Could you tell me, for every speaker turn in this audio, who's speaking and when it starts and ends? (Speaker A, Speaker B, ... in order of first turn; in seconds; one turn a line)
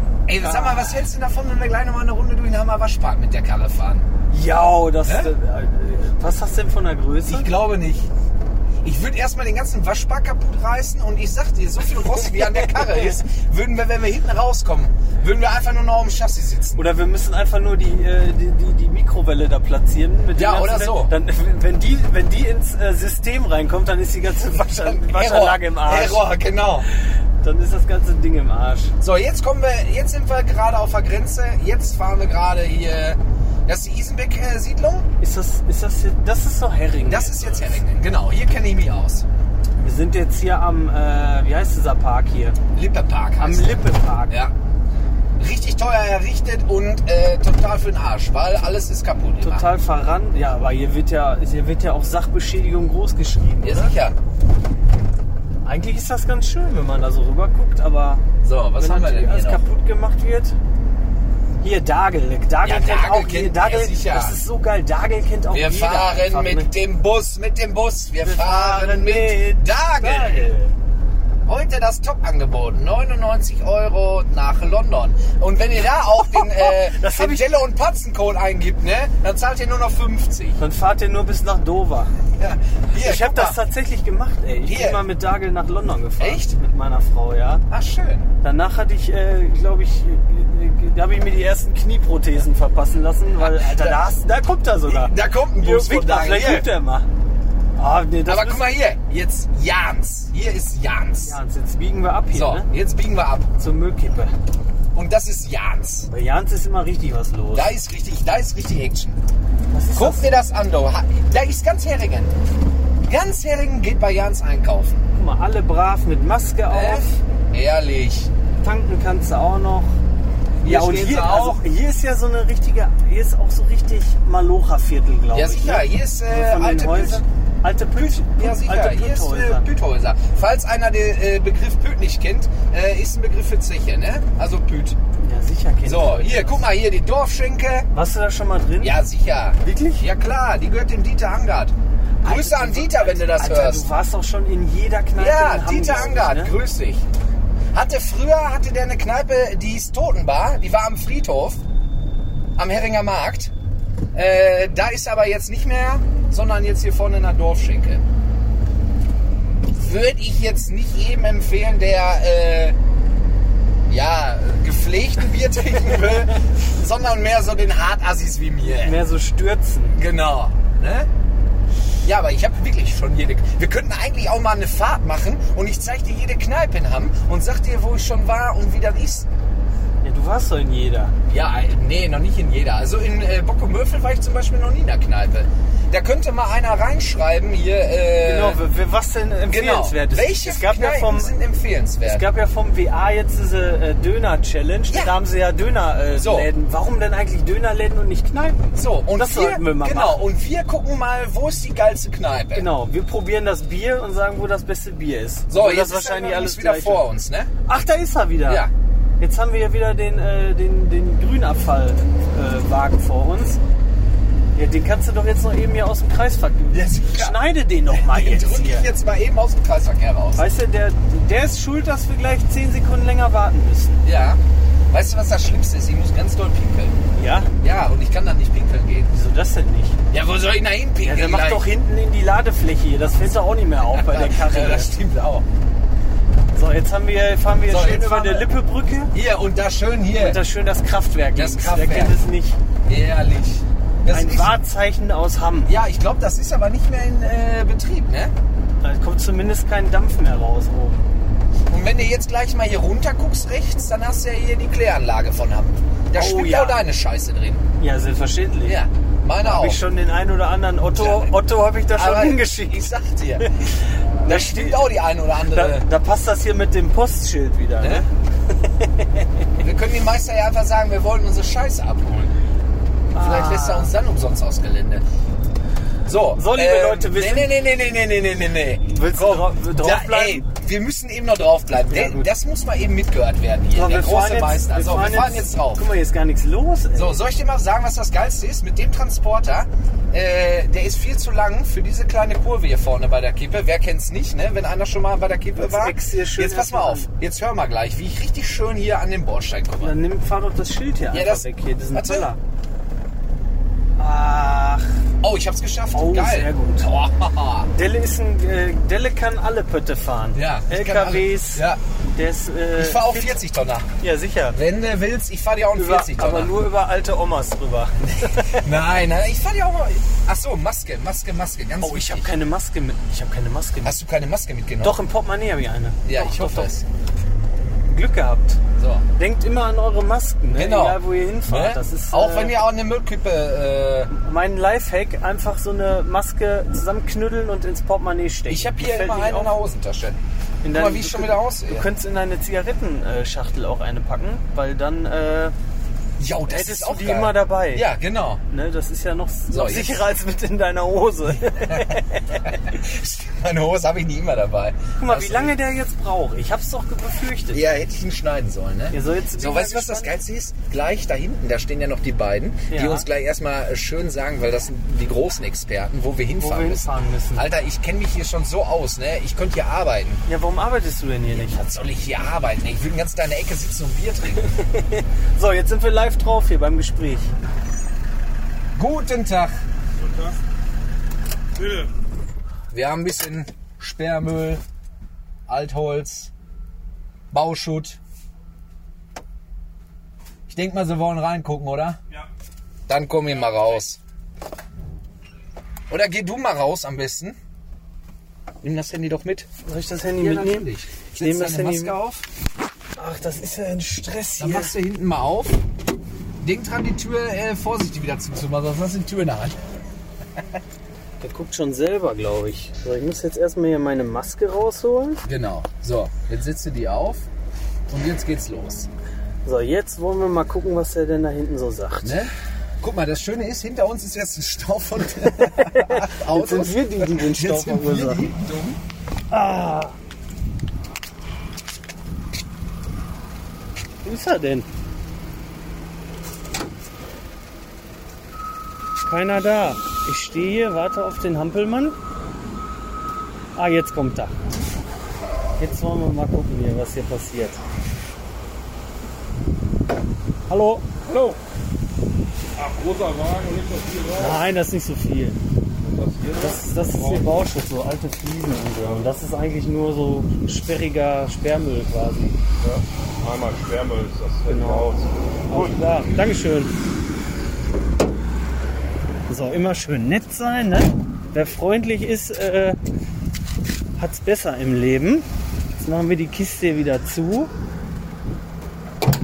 Speaker A: 0.3-4.0
Speaker B: 0.4-1.0
Speaker B: 4.3-7.5
Speaker A: 5.0-5.3
Speaker A: 7.2-8.1
Speaker A: 8.8-16.8
Speaker B: 12.4-13.1
Speaker B: 16.8-26.3
Speaker A: 20.4-21.1
Speaker A: 24.7-26.9
Speaker B: 27.4-28.9
Speaker A: 29.0-35.1
Speaker B: 35.2-37.8
Speaker A: 37.0-39.2
Speaker B: 39.8-42.6
Speaker A: 42.7-44.5
Speaker B: 43.4-44.4
Speaker A: 45.4-49.7
Speaker B: 49.4-53.9
Speaker A: 53.6-54.1
Speaker B: 55.6-58.2
Speaker A: 58.4-59.6
Speaker B: 58.8-60.5
Speaker B: 61.6-66.7
Speaker A: 62.6-64.4
Speaker A: 65.5-70.5
Speaker B: 68.2-70.7
Speaker A: 71.4-80.6
Speaker B: 76.2-77.5
Speaker B: 80.6-82.1
Speaker A: 82.4-83.6
Speaker B: 82.9-87.6
Speaker A: 84.7-85.0
Speaker A: 86.2-86.5
Speaker A: 87.7-88.3
Speaker B: 88.4-97.1
Speaker A: 93.4-94.0
Speaker A: 94.8-96.7
Speaker B: 97.8-98.7
Speaker A: 98.2-101.4
Speaker B: 101.2-102.7
Speaker A: 102.3-103.5
Speaker B: 103.6-104.3
Speaker A: 104.9-106.1
Speaker B: 106.0-107.7
Speaker A: 107.5-109.2
Speaker B: 109.7-110.3
Speaker A: 109.9-112.3
Speaker A: 113.0-115.0
Speaker B: 115.1-117.2
Speaker A: 116.7-118.3
Speaker B: 118.6-120.0
Speaker A: 120.6-121.6
Speaker B: 120.6-129.7
Speaker A: 125.3-127.2
Speaker A: 127.9-135.0
Speaker B: 135.2-136.6
Speaker A: 135.8-137.9
Speaker B: 137.9-138.9
Speaker A: 138.8-143.8
Speaker B: 139.6-140.0
Speaker B: 142.2-146.5
Speaker A: 145.2-147.0
Speaker A: 147.7-151.6
Speaker A: 152.6-153.5
Speaker A: 154.1-158.0
Speaker A: 159.7-162.8
Speaker A: 163.9-169.0
Speaker B: 168.8-170.0
Speaker A: 169.9-171.1
Speaker A: 172.0-179.3
Speaker B: 180.0-181.1
Speaker A: 181.3-188.6
Speaker B: 188.2-191.3
Speaker A: 189.5-192.2
Speaker B: 192.0-200.2
Speaker A: 194.9-195.2
Speaker A: 196.1-196.5
Speaker A: 198.8-202.7
Speaker B: 202.5-207.0
Speaker A: 205.5-207.5
Speaker B: 207.7-208.7
Speaker B: 209.2-213.6
Speaker B: 214.5-218.9
Speaker A: 216.7-220.4
Speaker B: 220.3-224.0
Speaker A: 224.0-224.4
Speaker A: 224.9-227.0
Speaker B: 227.1-227.5
Speaker A: 227.6-229.1
Speaker B: 229.1-230.0
Speaker A: 230.1-231.7
Speaker B: 231.0-234.9
Speaker A: 233.8-235.4
Speaker B: 236.5-239.1
Speaker A: 237.7-238.5
Speaker A: 239.1-240.4
Speaker B: 240.1-242.6
Speaker A: 241.3-242.2
Speaker A: 242.8-244.6
Speaker B: 244.1-245.7
Speaker A: 245.7-248.3
Speaker B: 248.8-251.0
Speaker A: 251.7-257.6
Speaker B: 256.1-256.8
Speaker B: 257.8-258.8
Speaker A: 258.6-259.8
Speaker B: 259.4-263.6
Speaker A: 260.9-261.4
Speaker A: 261.9-263.5
Speaker B: 264.2-264.9
Speaker A: 264.2-265.9
Speaker B: 265.5-268.1
Speaker A: 267.8-268.0
Speaker B: 268.8-269.2
Speaker A: 269.6-272.3
Speaker B: 273.1-273.9
Speaker A: 273.1-275.0
Speaker A: 276.0-285.8
Speaker B: 276.3-277.5
Speaker B: 278.9-280.4
Speaker B: 281.9-282.3
Speaker B: 283.7-287.2
Speaker A: 286.9-299.9
Speaker B: 295.6-297.1
Speaker B: 299.8-302.4
Speaker A: 301.1-302.3
Speaker B: 304.0-304.9
Speaker A: 305.2-307.7
Speaker B: 305.9-306.9
Speaker B: 307.7-313.4
Speaker A: 310.3-311.8
Speaker A: 312.8-313.9
Speaker B: 314.0-314.6
Speaker A: 314.5-316.5
Speaker B: 315.7-318.7
Speaker A: 318.0-322.3
Speaker B: 321.8-324.0
Speaker A: 323.8-325.0
Speaker B: 324.8-326.7
Speaker A: 326.0-326.8
Speaker B: 327.9-328.6
Speaker A: 328.8-329.0
Speaker B: 329.1-332.6
Speaker A: 330.6-334.1
Speaker B: 334.1-339.5
Speaker A: 338.5-340.2
Speaker B: 340.6-345.5
Speaker A: 340.7-341.9
Speaker A: 346.2-348.4
Speaker B: 346.5-347.9
Speaker B: 348.5-352.4
Speaker A: 349.5-350.0
Speaker A: 351.6-355.6
Speaker B: 355.0-357.7
Speaker A: 357.5-370.2
Speaker B: 358.9-360.1
Speaker B: 362.7-363.1
Speaker B: 366.4-367.4
Speaker B: 370.2-371.6
Speaker A: 371.3-374.6
Speaker B: 374.5-377.3
Speaker A: 378.7-379.6
Speaker A: 382.7-384.6
Speaker A: 385.5-386.3
Speaker A: 387.3-388.0
Speaker A: 390.5-392.0
Speaker A: 392.9-394.0
Speaker A: 395.9-397.4
Speaker A: 398.6-399.5
Speaker B: 399.6-402.0
Speaker A: 400.2-402.2
Speaker B: 403.0-404.7
Speaker A: 404.4-405.6
Speaker A: 406.4-409.6
Speaker B: 411.2-415.2
Speaker A: 415.2-417.3
Speaker A: 417.9-418.9
Speaker B: 419.4-422.2
Speaker A: 422.0-428.8
Speaker B: 425.2-428.2
Speaker B: 429.3-429.9
Speaker B: 434.0-434.7
Speaker B: 439.0-442.0
Speaker B: 443.6-444.3
Speaker B: 445.6-447.6
Speaker B: 450.5-450.9
Speaker C: 451.0-451.4
Speaker C: 452.6-454.5
Speaker B: 454.2-455.4
Speaker C: 455.8-457.4
Speaker B: 456.4-462.4
Speaker C: 462.6-465.9
Speaker B: 464.5-464.9
Speaker B: 465.5-466.7
Speaker B: 469.3-472.8
Speaker B: 474.0-475.2
Speaker B: 475.8-477.5